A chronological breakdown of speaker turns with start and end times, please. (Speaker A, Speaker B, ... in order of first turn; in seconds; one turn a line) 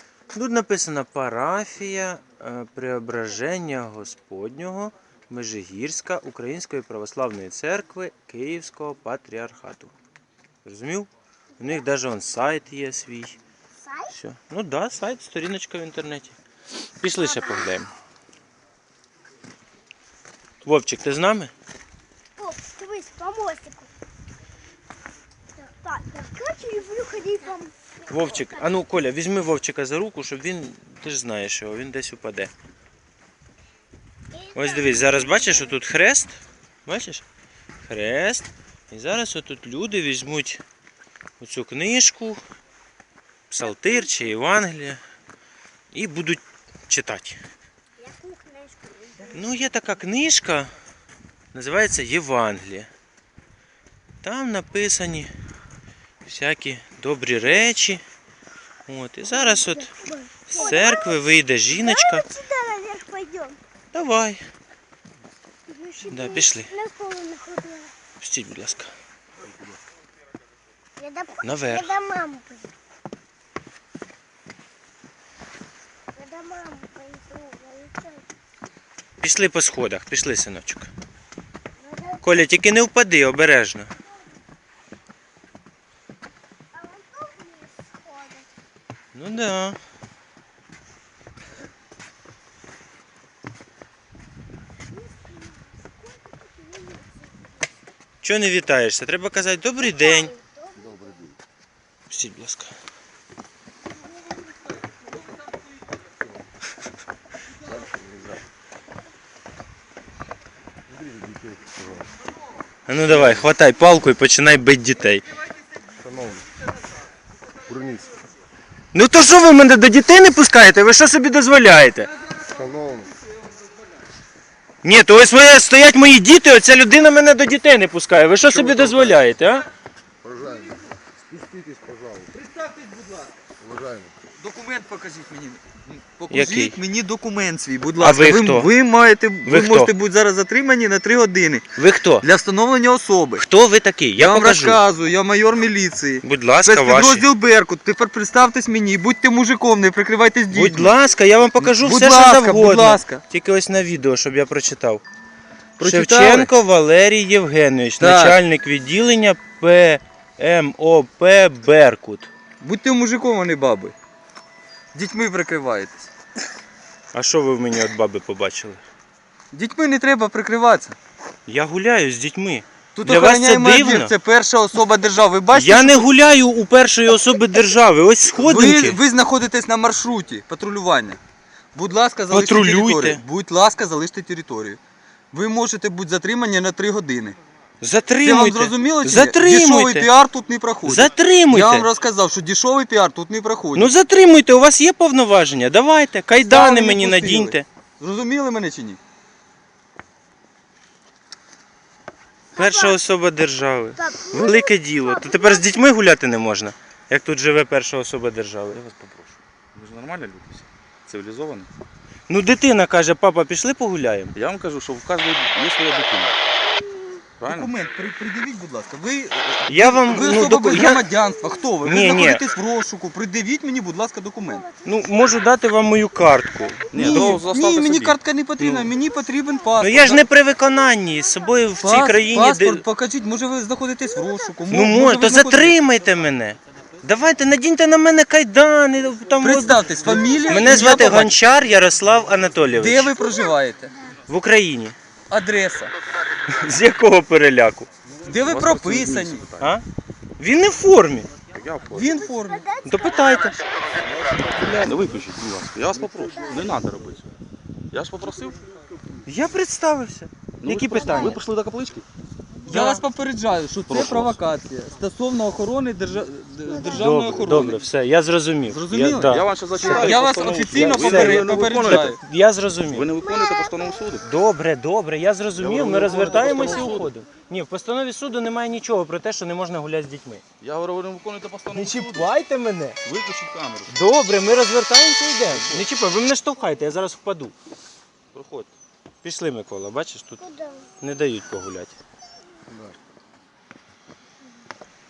Speaker A: 0.3-9.9
Speaker A: 10.6-11.1
Speaker A: 11.6-13.4
Speaker B: 13.8-14.1
Speaker A: 14.1-16.4
Speaker A: 17.0-17.9
Speaker A: 20.6-21.5
Speaker B: 22.4-23.9
Speaker B: 25.6-27.7
Speaker A: 28.1-32.5
Speaker B: 34.3-35.6
Speaker A: 34.5-37.2
Speaker A: 37.8-40.6
Speaker A: 41.4-42.4
Speaker A: 43.5-45.0
Speaker A: 45.9-47.4
Speaker B: 48.0-49.4
Speaker A: 49.3-50.7
Speaker A: 51.5-52.9
Speaker A: 54.2-55.3
Speaker A: 56.2-58.0
Speaker A: 58.9-59.9
Speaker B: 59.7-61.1
Speaker A: 60.5-62.3
Speaker B: 61.8-63.6
Speaker A: 63.9-64.4
Speaker B: 65.7-67.9
Speaker A: 66.1-66.7
Speaker A: 68.2-68.9
Speaker B: 71.0-72.7
Speaker A: 71.4-72.0
Speaker B: 76.1-78.2
Speaker A: 79.2-80.9
Speaker B: 81.8-82.2
Speaker A: 82.2-83.9
Speaker B: 86.7-88.4
Speaker A: 89.1-89.8
Speaker B: 96.6-97.0
Speaker A: 98.2-100.3
Speaker B: 100.3-100.7
Speaker A: 102.1-102.7
Speaker C: 107.7-108.3
Speaker C: 110.9-111.9
Speaker A: 112.9-115.2
Speaker C: 113.1-113.4
Speaker C: 116.0-116.5
Speaker C: 117.7-118.1
Speaker A: 118.9-122.1
Speaker C: 122.5-123.1
Speaker A: 124.8-129.7
Speaker C: 128.8-129.1
Speaker C: 130.2-130.7
Speaker C: 131.3-132.3
Speaker D: 132.4-133.3
Speaker C: 133.6-134.1
Speaker D: 134.3-143.4
Speaker A: 136.3-136.8
Speaker A: 138.0-138.7
Speaker A: 139.4-139.9
Speaker A: 141.8-142.2
Speaker A: 143.4-144.8
Speaker D: 144.2-150.9
Speaker A: 146.2-147.2
Speaker A: 150.5-155.0
Speaker D: 151.6-153.2
Speaker D: 155.8-156.5
Speaker A: 155.8-162.3
Speaker D: 158.0-158.4
Speaker D: 162.6-163.9
Speaker D: 164.9-166.1
Speaker A: 167.1-168.8
Speaker D: 169.5-171.0
Speaker A: 171.5-174.1
Speaker D: 172.9-176.1
Speaker A: 175.5-179.0
Speaker D: 178.3-181.2
Speaker D: 181.8-184.8
Speaker A: 182.3-183.2
Speaker D: 185.3-187.4
Speaker A: 187.8-190.1
Speaker D: 188.2-193.9
Speaker A: 190.8-191.9
Speaker A: 193.8-197.7
Speaker D: 196.4-199.0
Speaker A: 202.5-208.8
Speaker B: 202.6-203.0
Speaker B: 204.1-205.5
Speaker E: 208.8-211.7
Speaker A: 212.3-214.3
Speaker E: 214.3-216.4
Speaker E: 217.4-217.8
Speaker D: 217.4-224.7
Speaker A: 219.7-221.0
Speaker A: 221.8-222.4
Speaker A: 224.8-227.4
Speaker E: 226.9-228.9
Speaker D: 226.9-230.3
Speaker A: 229.8-232.8
Speaker D: 231.8-235.8
Speaker A: 234.7-243.2
Speaker D: 239.4-241.4
Speaker D: 242.8-243.9
Speaker A: 244.3-245.0
Speaker D: 245.3-245.9
Speaker A: 246.5-247.9
Speaker D: 248.2-249.5
Speaker E: 248.4-249.7
Speaker A: 250.4-251.3
Speaker E: 251.5-252.2
Speaker D: 251.9-252.7
Speaker A: 252.0-252.2
Speaker B: 252.4-253.3
Speaker A: 252.8-253.6
Speaker E: 254.0-257.2
Speaker B: 256.4-256.6
Speaker E: 257.9-258.6
Speaker A: 259.2-261.4
Speaker E: 260.6-262.1
Speaker D: 262.7-267.9
Speaker A: 262.7-263.0
Speaker E: 263.9-264.4
Speaker A: 266.8-273.1
Speaker D: 268.7-272.2
Speaker E: 269.3-272.1
Speaker E: 272.9-274.2
Speaker B: 273.3-273.8
Speaker A: 274.2-280.4
Speaker E: 275.6-277.1
Speaker E: 280.6-282.3
Speaker A: 281.7-283.0
Speaker E: 283.0-283.9
Speaker A: 283.9-287.5
Speaker E: 285.5-285.9
Speaker E: 288.3-288.7
Speaker A: 289.2-290.5
Speaker A: 291.0-292.0